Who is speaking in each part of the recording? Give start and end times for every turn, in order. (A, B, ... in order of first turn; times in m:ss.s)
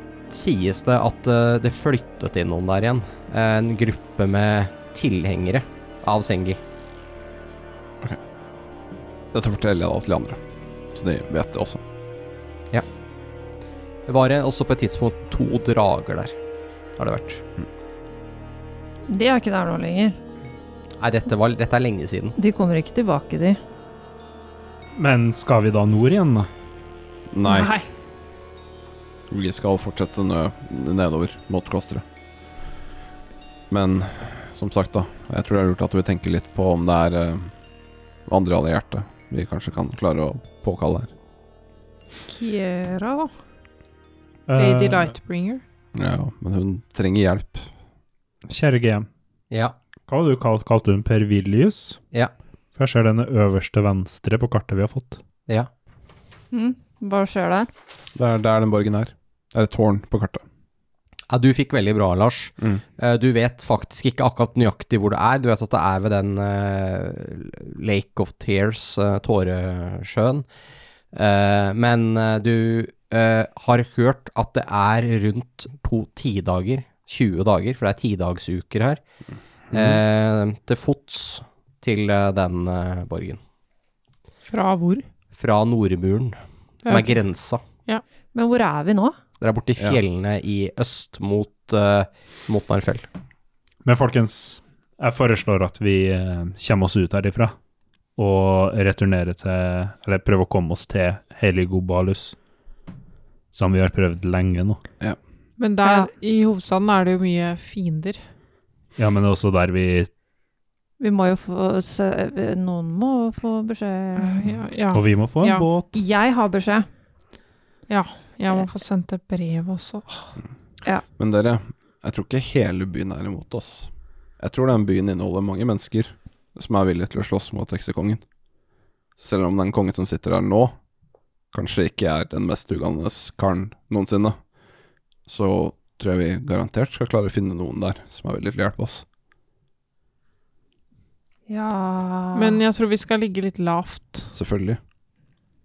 0:00.3-0:06.6 A
0:09.3-0:10.4 B
0:10.9-0:11.8 B
0:14.0-0:16.3 A
0:17.0-0:17.4 A
0:19.1-0:20.2 C
0:21.0-0:22.4 A
0:22.4-0:23.6 C
0:24.9-0:26.5 D
0:27.3-0:27.7 B
0:27.4-0:27.9 E
0:29.3-0:32.0 B
0:33.7-0:37.5 B
0:38.2-0:41.1 B
0:42.2-0:43.3 E
0:44.5-0:45.1 D
0:44.6-0:45.6 E
0:45.9-0:47.7 B
0:48.5-0:49.1 D
0:50.1-0:52.0 D
0:52.7-0:55.2 D
0:56.5-0:57.7 C
0:58.1-1:00.4 B
1:01.3-1:10.4 A
1:11.1-1:19.0 A
1:19.7-1:20.0 B
1:19.7-1:23.4 A
1:24.4-1:25.0 E
1:25.3-1:27.6 A
1:26.8-1:27.2 E
1:28.3-1:29.2 C
1:29.4-1:33.1 A
1:33.8-1:37.5 D
1:38.2-1:42.3 D
1:43.5-1:44.8 D
1:45.6-1:48.2 E
1:45.8-1:46.1 C
1:49.0-1:50.1 D
1:51.0-1:54.4 C
1:54.2-1:55.7 E
1:54.9-1:55.9 D
1:55.9-1:56.9 C
1:57.9-2:00.3 E
2:01.1-2:08.2 B
2:09.2-2:10.7 B
2:11.5-2:14.4 B
2:15.3-2:19.0 B
2:21.5-2:22.6 C
2:22.3-2:24.3 E
2:24.3-2:24.8 B